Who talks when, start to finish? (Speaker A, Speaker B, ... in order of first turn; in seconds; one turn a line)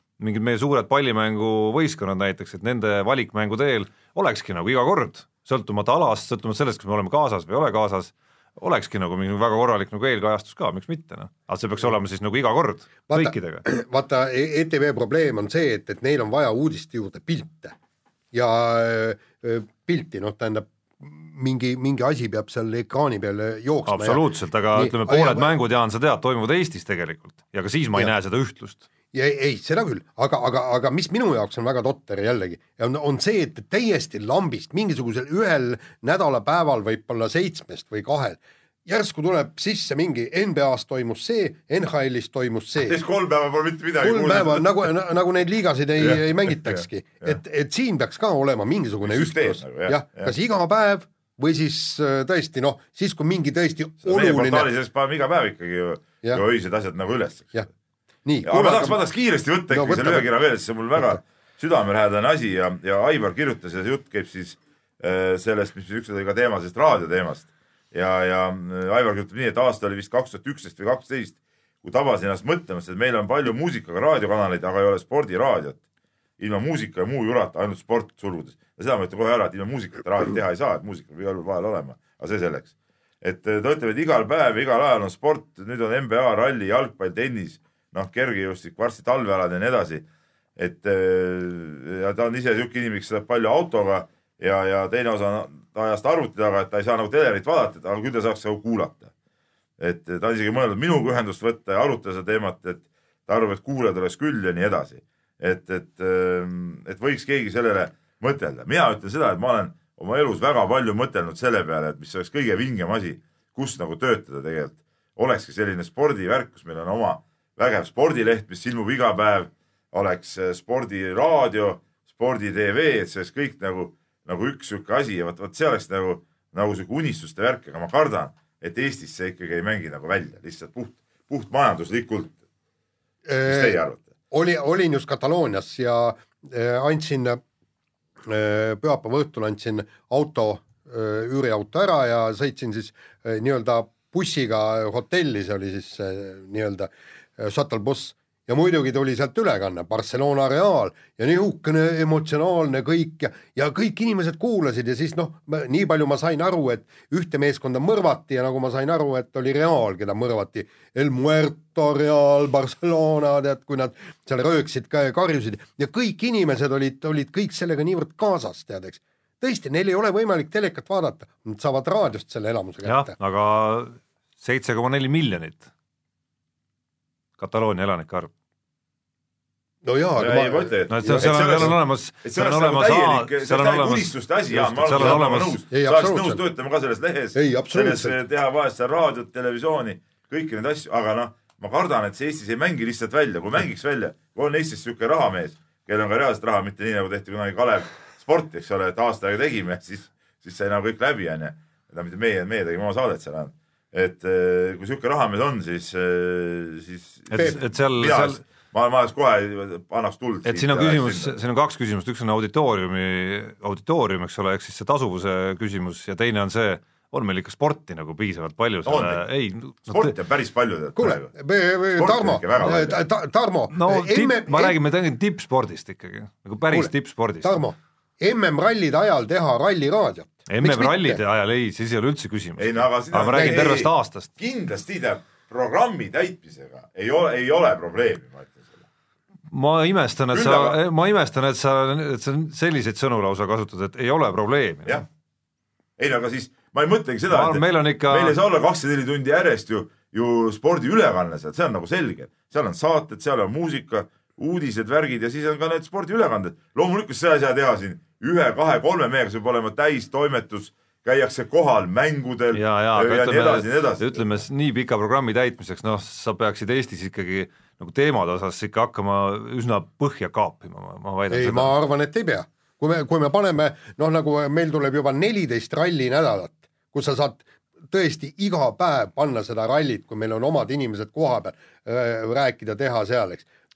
Speaker A: 0.2-13.6
Speaker B: 13.1-17.7
Speaker B: 18.3-24.2
Speaker A: 23.9-28.8
Speaker B: 24.7-25.5
Speaker B: 29.1-43.0
Speaker C: 42.8-44.9
Speaker B: 44.0-54.7
Speaker C: 46.0-47.4
Speaker C: 49.0-50.3
Speaker C: 54.0-57.6
Speaker B: 58.2-59.0
Speaker C: 58.4-75.8
Speaker B: 59.7-60.3
Speaker C: 76.4-82.7
Speaker C: 83.2-90.0
Speaker C: 90.5-99.1
Speaker C: 99.8-132.3
Speaker B: 133.2-133.8
Speaker C: 133.4-134.0
Speaker B: 134.3-137.4
Speaker B: 138.2-173.1
Speaker A: 172.8-175.7
Speaker A: 177.4-178.3
Speaker B: 179.8-181.7
Speaker C: 180.2-211.3
Speaker A: 180.9-185.6
Speaker B: 185.7-186.4
Speaker B: 187.3-188.2
Speaker A: 207.3-208.4
Speaker A: 210.4-220.2
Speaker C: 218.8-219.2
Speaker C: 219.8-221.3
Speaker B: 220.9-224.8
Speaker C: 222.0-223.0
Speaker A: 223.7-227.6
Speaker B: 227.4-231.2
Speaker A: 230.5-234.3
Speaker C: 232.6-238.8
Speaker B: 233.3-233.6
Speaker A: 239.5-245.0
Speaker C: 240.3-240.8
Speaker C: 246.0-264.2
Speaker A: 247.3-248.4
Speaker A: 262.5-271.7
Speaker B: 271.3-283.4